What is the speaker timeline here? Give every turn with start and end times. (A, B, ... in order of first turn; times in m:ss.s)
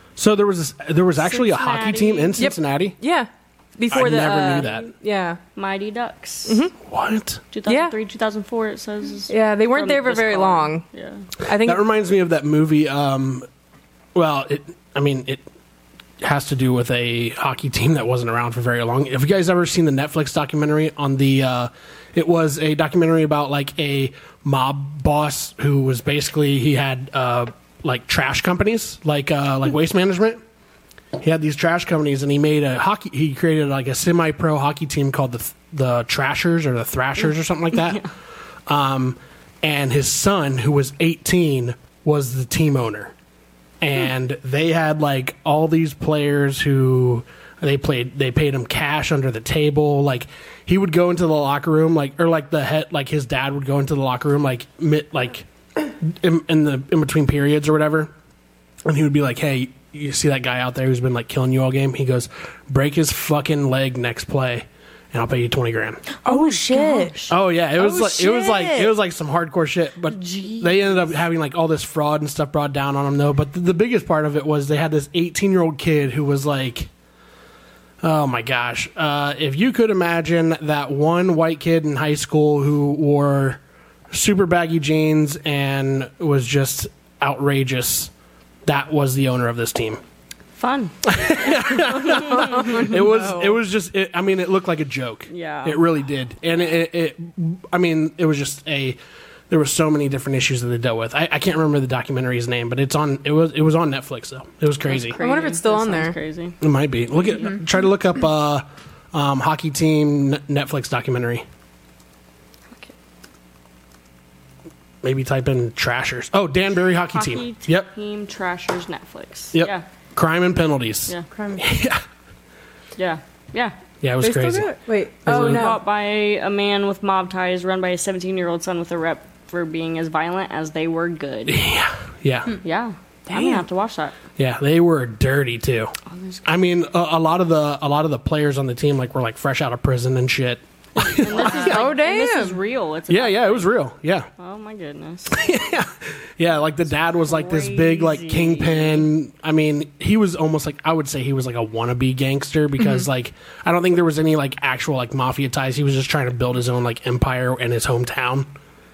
0:00.2-0:03.0 A
0:01.2-0:02.4 B
0:02.4-0:05.4 C
0:03.9-0:04.9 A
0:04.4-0:04.9 B
0:05.6-0:06.6 B
0:06.5-0:06.7 C
0:06.8-0:07.4 A
0:07.5-0:11.2 B
0:07.6-0:07.9 C
0:09.3-0:10.8 C
0:11.4-0:11.8 C
0:11.6-0:13.5 A
0:14.1-0:15.4 A
0:16.2-0:30.4 A
0:31.2-0:38.0 A
0:38.7-0:43.1 A
0:43.8-0:58.1 A
0:58.8-1:06.0 A
1:06.2-1:07.2 C
1:06.2-1:07.3 B
1:07.3-1:16.9 A
1:07.8-1:08.9 C
1:10.1-1:11.0 B
1:18.0-1:23.6 A
1:24.1-1:28.1 A
1:28.6-1:30.0 A
1:30.6-1:32.7 B
1:31.0-1:39.0 A
1:32.3-1:33.6 C
1:35.3-1:35.8 B
1:39.5-1:45.2 A
1:44.9-1:46.6 B
1:45.2-1:46.2 C
1:46.6-1:51.4 A
1:55.0-1:57.9 A
1:57.1-1:59.8 B
1:59.5-2:02.0 A
2:01.3-2:01.7 C
2:03.0-2:03.8 B
2:04.0-2:05.7 A
2:04.2-2:05.8 C
2:05.2-2:11.6 B
2:11.5-2:12.6 A
2:12.6-2:14.2 B
2:13.3-2:13.6 C
2:14.4-2:15.9 A
2:16.1-2:16.4 B
2:16.4-2:21.9 A
2:21.0-2:23.7 B
2:21.4-2:22.6 C
2:23.1-2:24.3 A
2:24.4-2:25.4 B
2:25.3-2:38.5 A
2:27.2-2:29.1 B